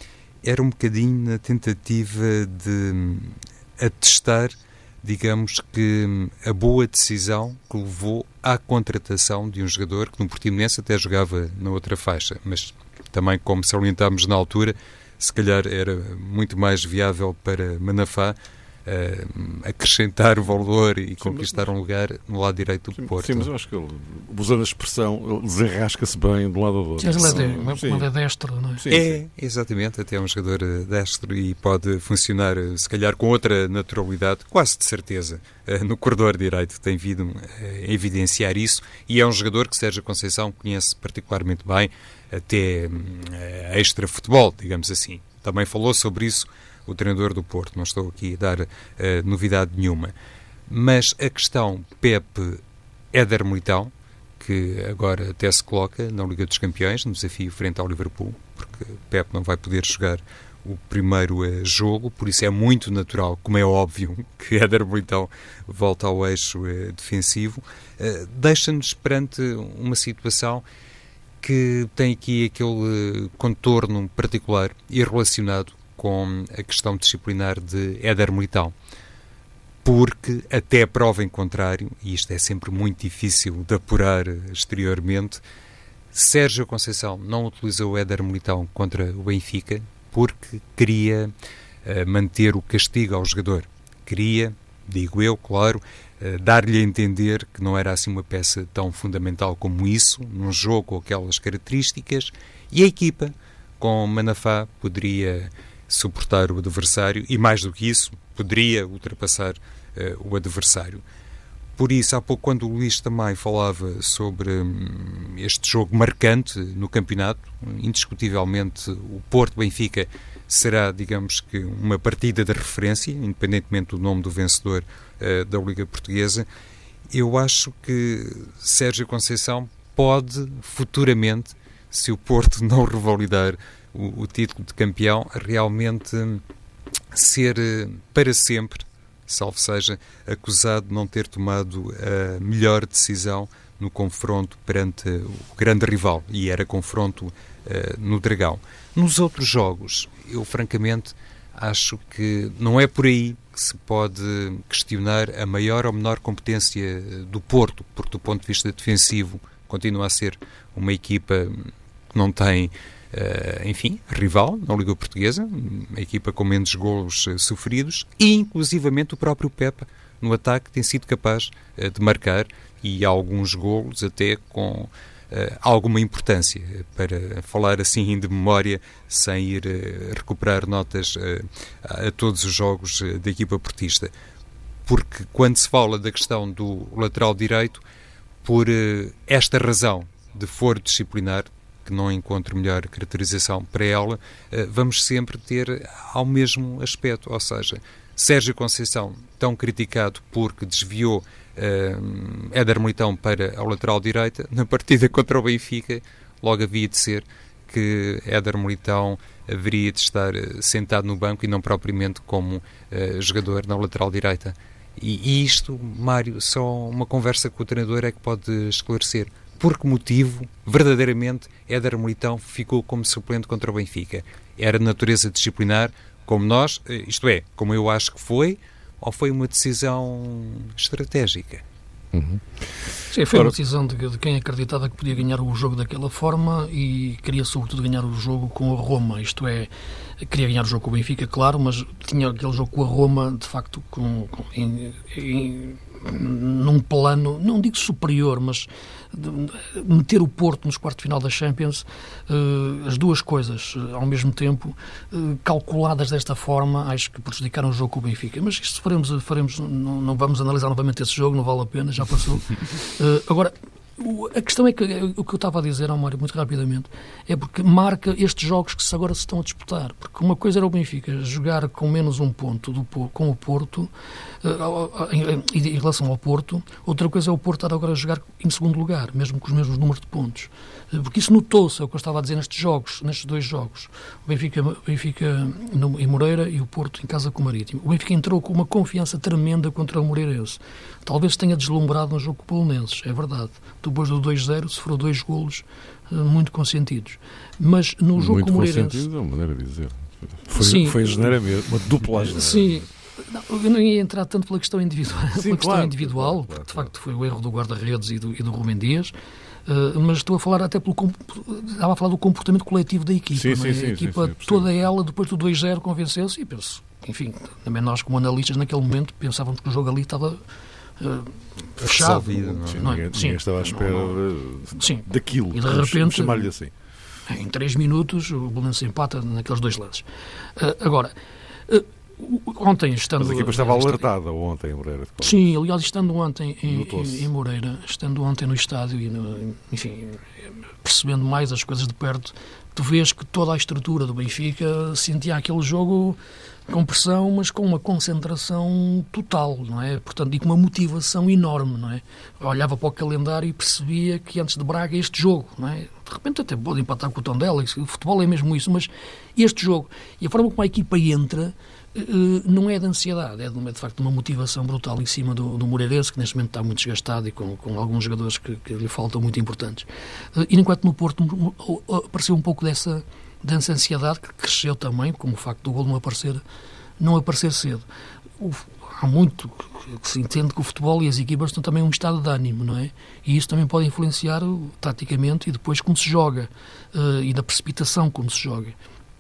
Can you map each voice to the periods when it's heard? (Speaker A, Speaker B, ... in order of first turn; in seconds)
Speaker A: 0.4-23.5, 28.9-50.1, 50.7-52.6, 53.1-70.6, 71.4-78.7, 79.8-85.4, 86.1-91.3, 91.8-111.0, 111.8-126.5, 127.1-136.4, 137.1-184.1, 184.9-187.8, 188.4-231.6, 321.8-322.9
Speaker B: 21.2-21.6, 22.9-28.1, 28.8-29.2, 232.1-232.7, 298.2-302.8, 305.3-306.9, 313.3-314.7, 322.6-326.7, 333.2-335.5, 336.7-337.3
Speaker C: 27.0-28.9, 233.1-273.9, 274.4-299.1, 300.6-301.2, 302.3-309.1, 309.7-320.4, 321.0-324.2, 324.8-326.5, 327.3-331.1, 331.7-334.0, 335.2-376.4, 377.0-377.9, 378.4-388.8